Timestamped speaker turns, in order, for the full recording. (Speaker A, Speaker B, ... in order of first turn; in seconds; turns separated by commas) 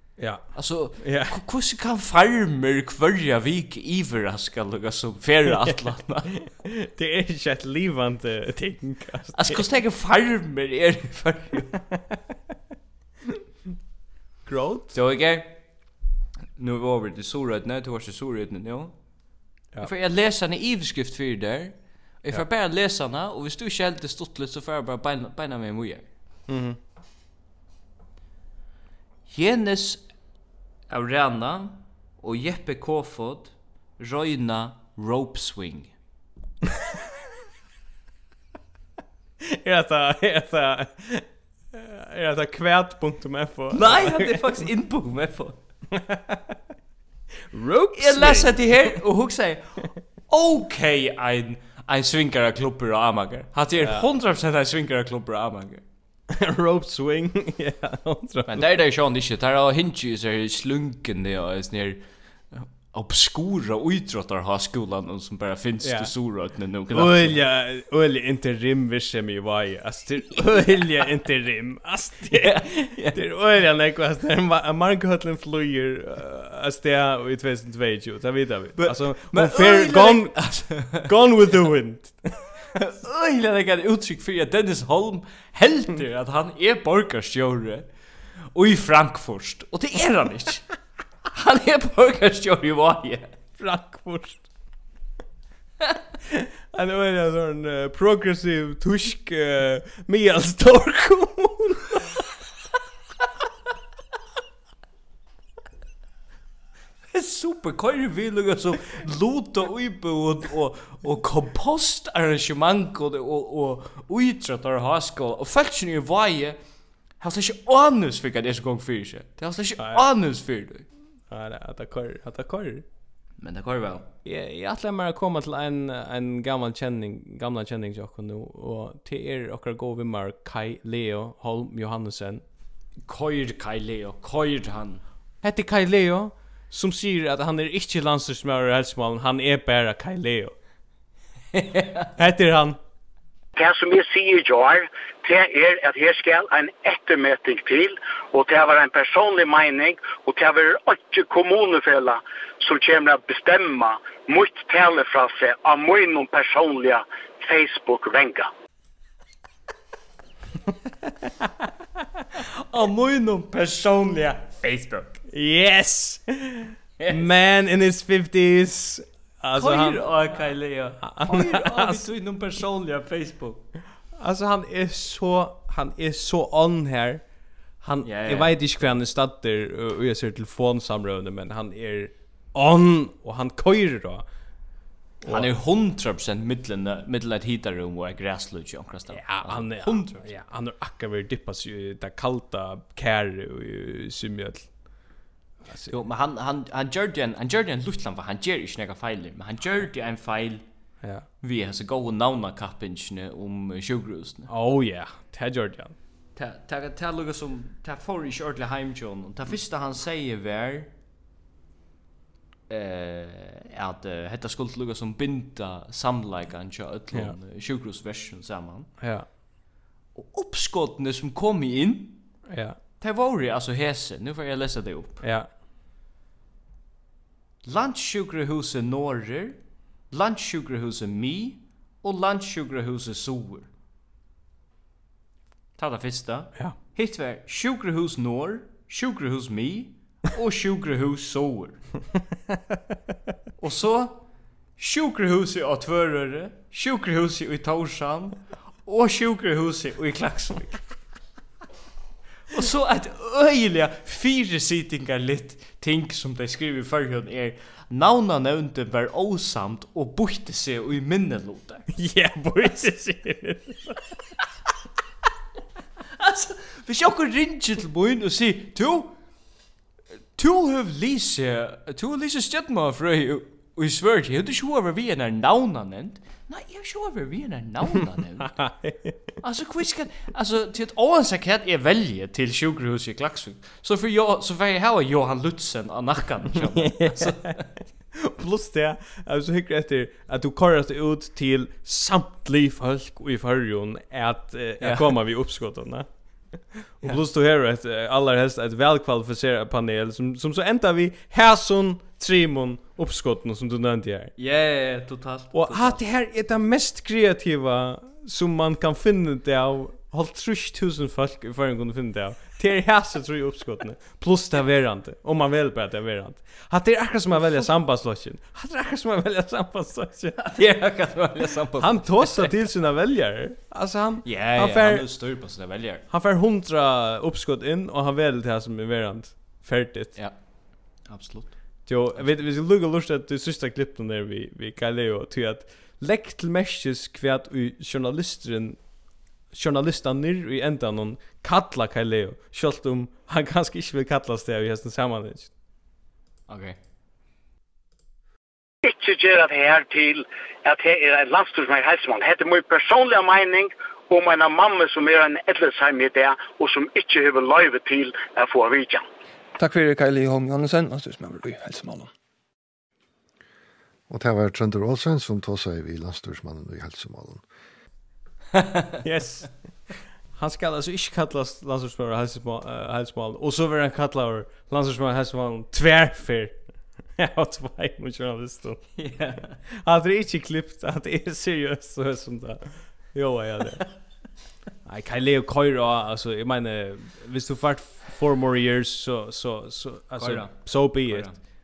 Speaker A: 0.2-1.4, Speaker B: 0.5-6.3, Speaker A: 6.3-9.6, Speaker B: 9.3-11.8, Speaker A: 11.9-12.2, Speaker A: 14.4-14.9, Speaker B: 14.9-15.7, Speaker B: 16.6-18.9, Speaker B: 19.8-26.1, Speaker A: 26.5-26.8, Speaker B: 29.3-30.0, Speaker B: 30.9-35.9, Speaker A: 39.4-44.6, Speaker B: 43.7-45.5, Speaker A: 45.9-46.6, Speaker A: 47.5-49.0, Speaker B: 47.9-55.8, Speaker A: 53.8-54.0, Speaker A: 56.3-58.7, Speaker B: 58.5-67.4, Speaker A: 65.8-66.1, Speaker A: 66.9-82.5, Speaker B: 72.3-73.2, Speaker B: 78.8-81.1, Speaker B: 82.7-87.9, Speaker B: 88.5-90.6, Speaker B: 91.3-93.3, Speaker A: 93.6-94.4, Speaker A: 96.3-102.2, Speaker B: 107.1-116.6, Speaker B: 117.2-120.9, Speaker A: 119.8-120.0, Speaker A: 121.3-122.8, Speaker B: 123.4-124.1, Speaker A: 124.2-132.4, Speaker B: 133.0-135.0, Speaker A: 135.4-140.5, Speaker B: 141.5-142.1, Speaker A: 142.2-142.8, Speaker C: 143.6-158.5, Speaker B: 162.4-165.2, Speaker A: 165.3-170.3, Speaker B: 167.0-167.2, Speaker B: 169.5-173.6, Speaker A: 171.0-172.1, Speaker A: 174.1-177.2, Speaker A: 177.8-184.2, Speaker B: 178.0-178.5, Speaker A: 185.2-185.5, Speaker B: 185.2-190.3, Speaker A: 189.1-194.7, Speaker A: 195.7-196.0, Speaker B: 195.9-200.6, Speaker B: 201.4-204.5, Speaker A: 204.5-205.9, Speaker B: 206.3-210.9, Speaker B: 212.7-218.9, Speaker A: 219.0-219.2, Speaker B: 220.1-222.2, Speaker A: 222.5-222.8, Speaker B: 223.0-225.2, Speaker A: 225.2-225.5, Speaker B: 227.6-233.7, Speaker B: 235.8-241.8, Speaker B: 243.6-244.2, Speaker B: 244.8-250.8, Speaker B: 252.5-261.9, Speaker A: 261.9-264.0, Speaker B: 266.2-269.1, Speaker B: 270.4-278.6, Speaker A: 278.4-279.3, Speaker B: 279.4-287.7, Speaker A: 286.6-287.6, Speaker A: 288.1-304.3, Speaker B: 294.8-295.1, Speaker B: 304.4-306.0, Speaker A: 305.5-320.4, Speaker B: 320.4-322.5, Speaker A: 321.8-325.1, Speaker B: 324.2-326.0, Speaker A: 326.1-330.2, Speaker B: 330.9-332.4, Speaker A: 331.9-338.8, Speaker A: 339.5-345.5, Speaker B: 346.5-346.8, Speaker C: 348.8-359.0, Speaker D: 359.6-362.1, Speaker E: 364.1-367.4, Speaker B: 368.5-369.0, Speaker A: 369.0-369.7, Speaker A: 370.3-376.6, Speaker A: 377.1-379.0, Speaker B: 379.0-379.6, Speaker A: 379.6-383.8, Speaker A: 384.8-391.3, Speaker B: 390.1-391.4